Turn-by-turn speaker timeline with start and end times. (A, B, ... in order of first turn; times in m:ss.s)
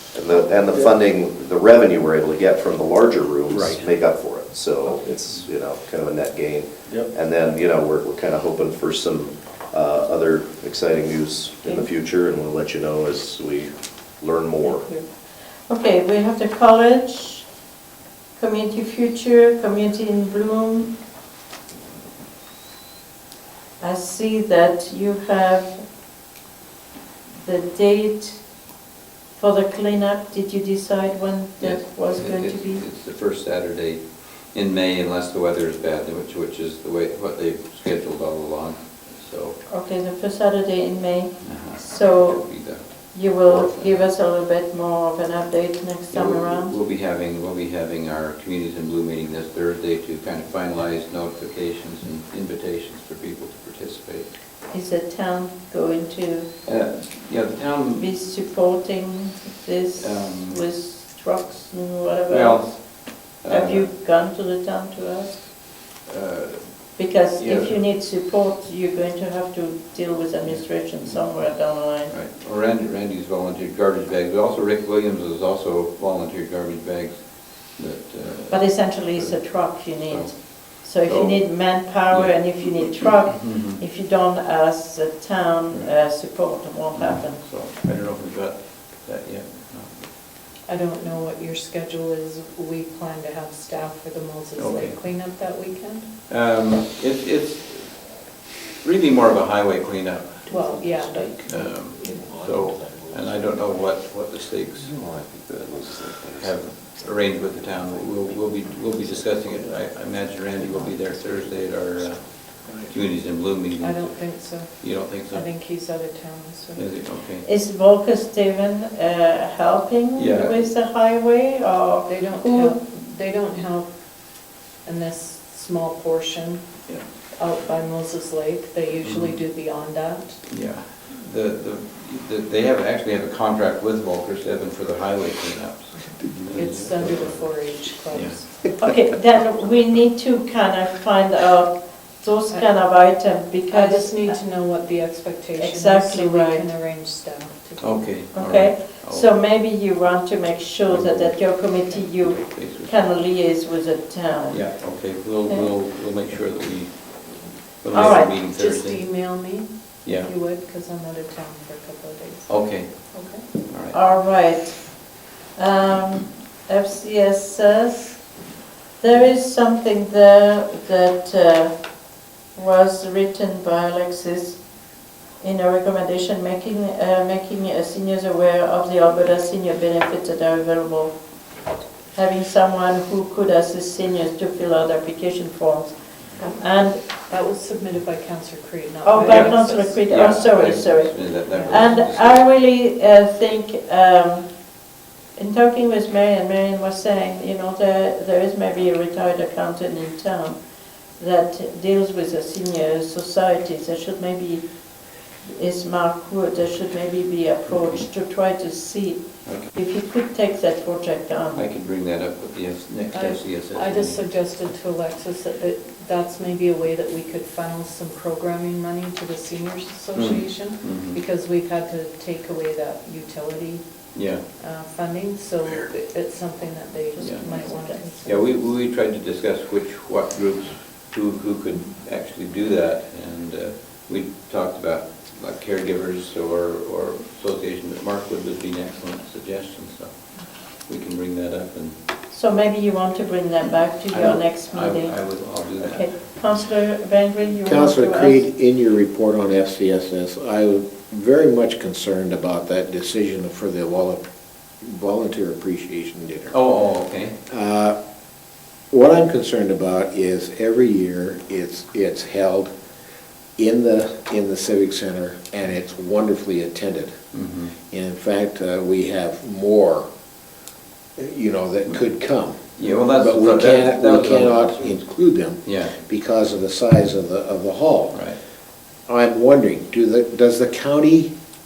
0:00.1-0:14.8 A
0:03.5-0:03.8 B
0:14.6-0:15.1 C
0:15.7-0:17.4 C
0:18.4-0:20.9 C
0:23.8-0:25.8 C
0:27.4-0:28.4 C
0:29.4-0:32.8 C
0:31.6-0:39.6 D
0:39.7-0:42.4 C
0:41.4-0:44.0 D
0:43.1-0:46.7 C
0:46.1-0:54.3 D
0:54.7-0:56.5 C
0:56.6-0:58.1 D
0:57.9-1:02.7 C
1:00.0-1:00.6 D
1:02.3-1:03.9 D
1:03.5-1:05.4 C
1:06.1-1:06.6 D
1:07.0-1:12.1 C
1:07.4-1:07.8 D
1:10.4-1:11.2 D
1:12.1-1:22.6 D
1:18.5-1:27.4 C
1:23.3-1:23.8 D
1:26.9-1:30.0 D
1:30.7-1:36.1 E
1:34.6-1:35.0 D
1:36.3-1:37.9 D
1:38.8-1:40.5 D
1:40.5-1:43.6 B
1:40.5-1:41.5 E
1:41.5-1:44.9 D
1:44.8-1:46.6 A
1:46.4-1:52.3 D
1:52.6-1:52.9 B
1:52.9-1:54.2 D
1:53.8-1:56.9 E
1:54.8-1:55.5 D
1:56.7-1:57.4 D
1:57.4-2:02.8 C
2:00.2-2:00.6 D
2:02.0-2:03.9 E
2:04.8-2:06.6 E
2:07.4-2:10.4 E
2:09.0-2:09.4 D
2:10.5-2:17.4 D
2:16.5-2:18.6 E
2:18.1-2:18.5 D
2:18.6-2:24.4 C
2:23.7-2:28.2 E
2:25.5-2:26.6 C
2:27.8-2:29.3 D
2:28.2-2:34.6 C
2:30.9-2:33.1 D
2:34.5-2:37.2 D
2:37.8-2:39.0 D
2:37.9-2:38.4 C
2:38.3-2:43.4 E
2:40.0-2:40.3 D
2:42.5-2:43.0 D
2:43.6-2:44.0 D
2:43.9-2:48.2 C
2:49.0-2:51.7 C
2:52.6-2:54.6 C
2:55.4-3:01.2 C
3:02.1-3:07.0 C
3:06.4-3:06.6 E
3:07.2-3:10.1 E
3:09.0-3:14.5 C
3:09.2-3:12.4 D
3:11.5-3:12.0 E
3:15.4-3:20.6 C
3:21.2-3:24.6 C
3:25.5-3:31.6 C
3:27.7-3:28.0 D
3:29.4-3:29.7 D
3:31.5-3:34.2 D
3:33.1-3:43.8 E
3:40.1-3:41.2 D
3:44.1-3:44.4 D
3:44.6-3:48.4 E
3:47.1-3:48.4 C
3:47.2-3:47.5 D
3:48.2-4:00.1 D
4:00.9-4:02.0 D
4:02.3-4:05.2 C
4:04.1-4:06.1 D
4:05.8-4:08.4 C
4:07.6-4:14.2 B
4:14.8-4:16.6 B
4:16.5-4:17.3 D
4:17.5-4:18.0 B
4:18.9-4:22.7 B
4:23.6-4:27.2 B
4:27.3-4:27.7 D
4:27.9-4:30.1 B
4:31.2-4:38.2 B
4:32.8-4:35.0 D
4:35.6-4:35.9 D
4:38.1-4:38.4 D
4:39.1-4:41.3 B